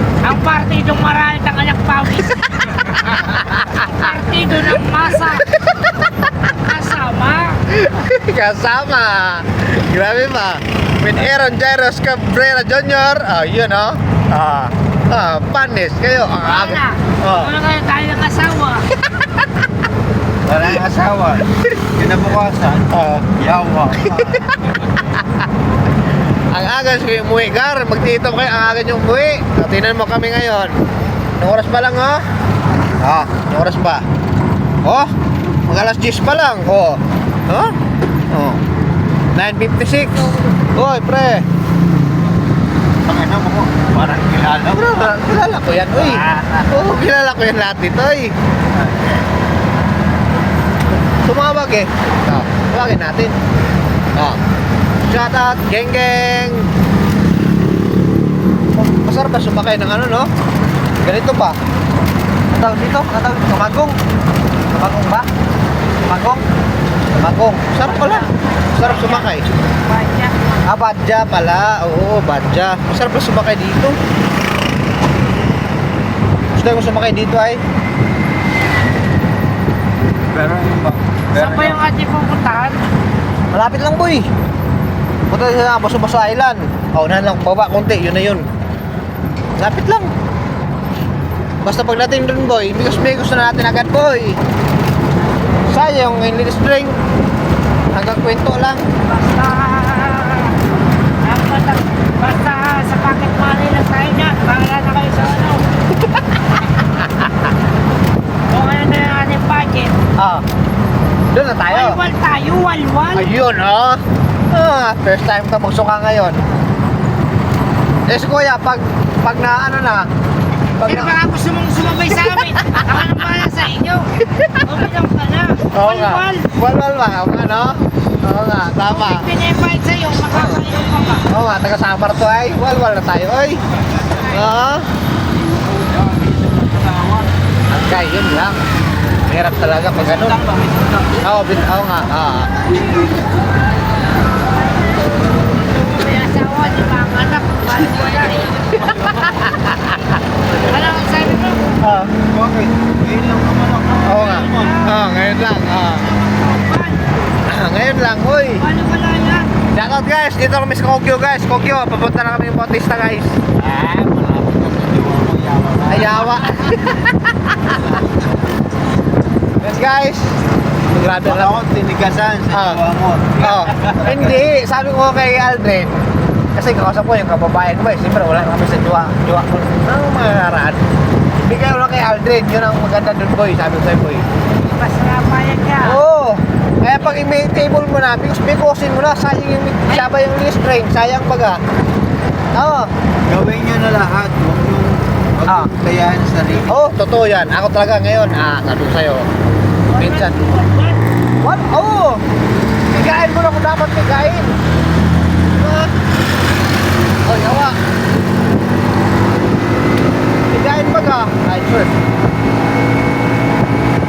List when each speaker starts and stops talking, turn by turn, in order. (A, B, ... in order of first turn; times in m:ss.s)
0:00.2-0:05.5 A
0:03.1-0:03.7 B
0:05.6-0:06.1 B
0:06.4-0:07.6 A
0:07.7-0:17.5 B
0:16.4-0:18.9 A
0:20.5-0:24.6 C
0:22.9-0:23.3 B
0:24.0-0:24.4 B
0:25.1-0:25.4 B
0:26.5-0:30.8 B
0:31.4-0:32.2 B
0:33.0-0:34.0 B
0:34.8-0:35.1 B
0:35.6-0:37.7 B
0:38.3-0:38.6 B
0:39.3-0:41.4 B
0:43.0-0:45.2 C
0:44.7-0:48.4 B
0:45.9-0:47.0 C
0:51.2-0:53.4 B
0:55.1-0:56.7 B
0:58.7-1:00.3 B
1:01.0-1:01.6 B
1:02.5-1:04.0 B
1:04.7-1:05.3 B
1:06.1-1:06.4 B
1:07.1-1:09.5 B
1:07.8-1:10.6 A
1:10.6-1:14.0 B
1:16.6-1:17.6 B
1:20.3-1:21.8 C
1:21.3-1:22.8 A
1:23.5-1:24.3 B
1:25.3-1:28.4 B
1:29.6-1:30.1 B
1:31.6-1:34.4 B
1:35.7-1:37.0 B
1:37.9-1:38.8 B
1:39.0-1:40.5 A
1:41.2-1:45.6 A
1:48.5-1:49.9 A
1:50.2-1:50.4 B
1:51.3-1:52.0 B
1:51.7-1:53.3 A
1:53.1-1:56.4 B
1:58.1-2:00.1 B
2:00.8-2:01.1 B
2:00.8-2:06.5 A
2:05.7-2:09.3 B
2:08.9-2:11.3 A
2:10.3-2:10.6 B
2:11.3-2:13.6 B
2:14.2-2:14.9 B
2:15.7-2:17.3 C
2:17.7-2:18.6 B
2:19.3-2:20.4 B
2:20.1-2:21.2 C
2:21.2-2:22.6 B
2:24.7-2:29.3 A
2:28.9-2:30.2 B
2:30.5-2:31.7 A
2:31.8-2:32.1 B
2:32.3-2:34.7 C
2:34.1-2:36.1 B
2:34.1-2:35.1 A
2:35.9-2:37.0 A
2:37.4-2:38.6 B
2:38.6-2:39.5 A
2:39.7-2:43.4 B
2:43.6-2:46.3 C
2:45.9-2:47.6 B
2:47.7-2:48.4 C
2:49.6-2:50.4 B
2:50.9-2:51.6 B
2:51.2-2:54.4 C
2:52.5-2:52.8 B
2:53.4-3:00.8 B
3:01.4-3:04.2 B
3:04.6-3:06.0 A
3:05.8-3:11.6 B
3:12.5-3:12.9 B
3:13.3-3:16.7 C
3:15.4-3:15.7 B
3:16.7-3:19.3 B
3:19.9-3:21.0 A
3:20.0-3:20.4 B
3:21.4-3:22.2 B
3:22.9-3:24.6 B
3:25.6-3:25.9 B
3:27.2-3:27.8 B
3:30.5-3:31.9 B